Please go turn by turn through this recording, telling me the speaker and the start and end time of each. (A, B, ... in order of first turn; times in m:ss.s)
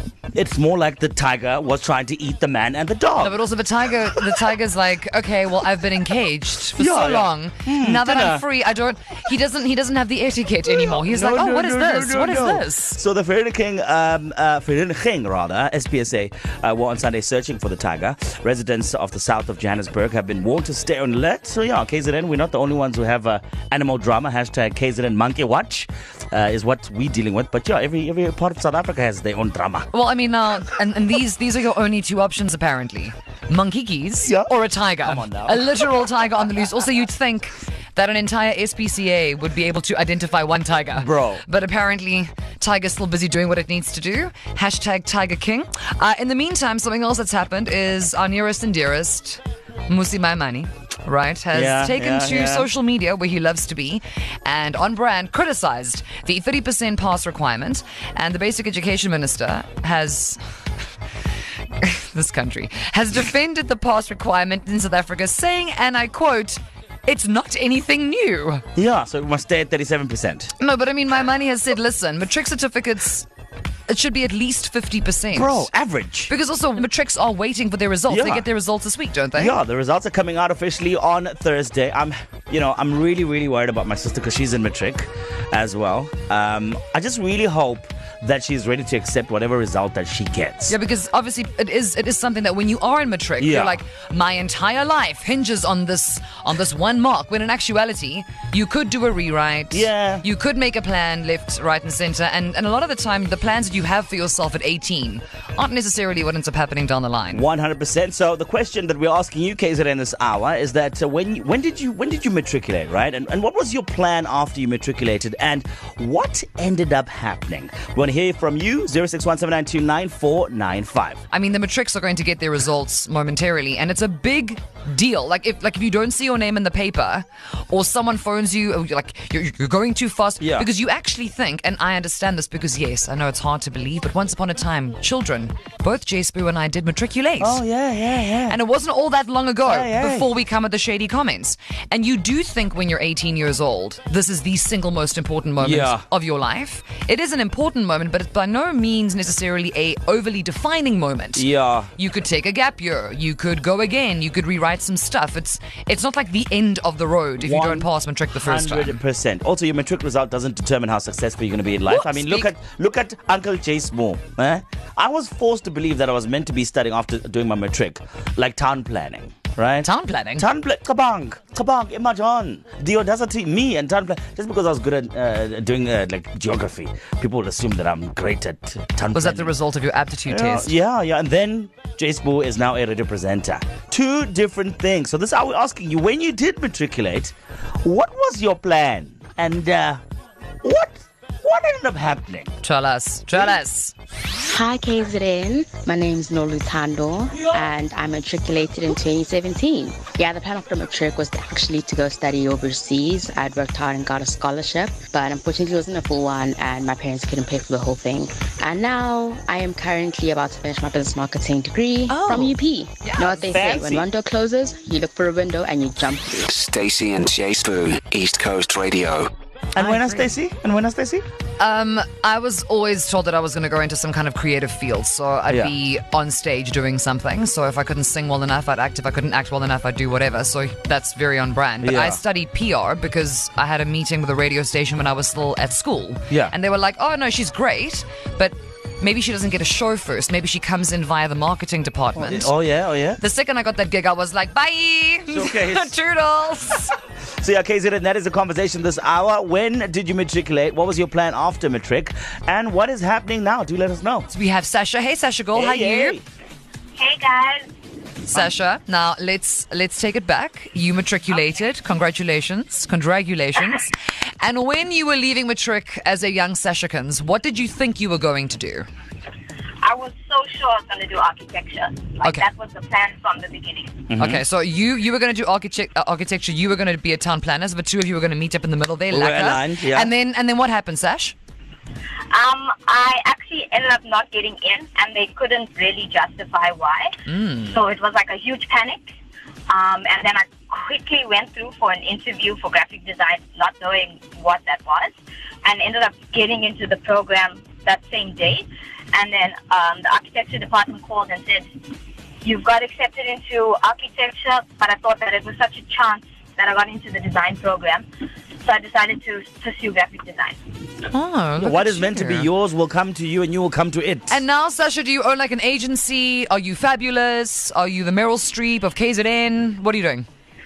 0:00.3-0:03.4 A
0:03.2-0:13.0 B
0:06.8-0:08.4 A
0:10.7-0:29.9 A
0:29.9-1:00.4 B
0:34.2-0:34.5 A
0:35.0-0:35.6 A
0:41.0-0:41.4 A
0:51.5-0:52.7 A
1:01.8-1:08.7 B
1:08.8-1:10.5 A
1:10.6-1:13.3 B
1:13.9-1:15.7 B
1:15.3-1:16.3 A
1:16.3-1:19.6 B
1:18.1-1:18.4 A
1:19.4-1:30.8 A
1:30.7-1:47.5 B
1:33.4-1:33.8 A
1:39.7-1:40.2 A
1:47.3-2:01.2 A
2:01.3-2:17.6 B
2:10.4-2:10.7 A
2:17.4-2:18.6 A
2:18.5-2:39.0 B
2:19.7-2:20.3 A
2:25.6-2:26.1 A
2:31.4-2:31.9 A
2:37.4-2:37.9 A
2:38.4-2:59.6 A
2:41.9-2:42.5 B
2:49.8-2:50.5 B
2:59.1-3:00.7 B
3:00.3-3:10.0 A
3:10.6-3:12.5 A
3:12.6-3:13.9 B
3:14.5-3:36.5 C
3:32.2-3:33.2 B
3:33.2-3:34.1 A
3:36.4-3:39.3 D
3:39.8-3:41.2 A
3:39.8-3:40.2 B
3:41.6-4:02.5 B
3:45.5-3:45.7 A
3:51.8-3:52.2 A
4:02.2-4:03.2 A
4:03.2-4:07.0 B
4:05.3-4:06.0 A
4:07.4-4:14.3 A
4:14.3-4:16.2 B
4:15.6-4:16.2 A
4:17.0-4:17.7 E
4:18.3-4:28.9 B
4:29.8-4:34.1 E
4:32.2-4:32.5 B
4:34.1-4:34.4 A
4:34.2-4:41.4 B
4:39.1-4:40.1 A
4:42.3-4:47.2 E
4:47.3-4:47.8 B
4:47.7-4:49.0 E
4:49.7-5:01.7 E
5:02.4-5:08.0 E
5:08.6-5:10.6 E
5:11.0-5:12.5 B
5:11.6-5:14.4 A
5:14.3-5:20.3 B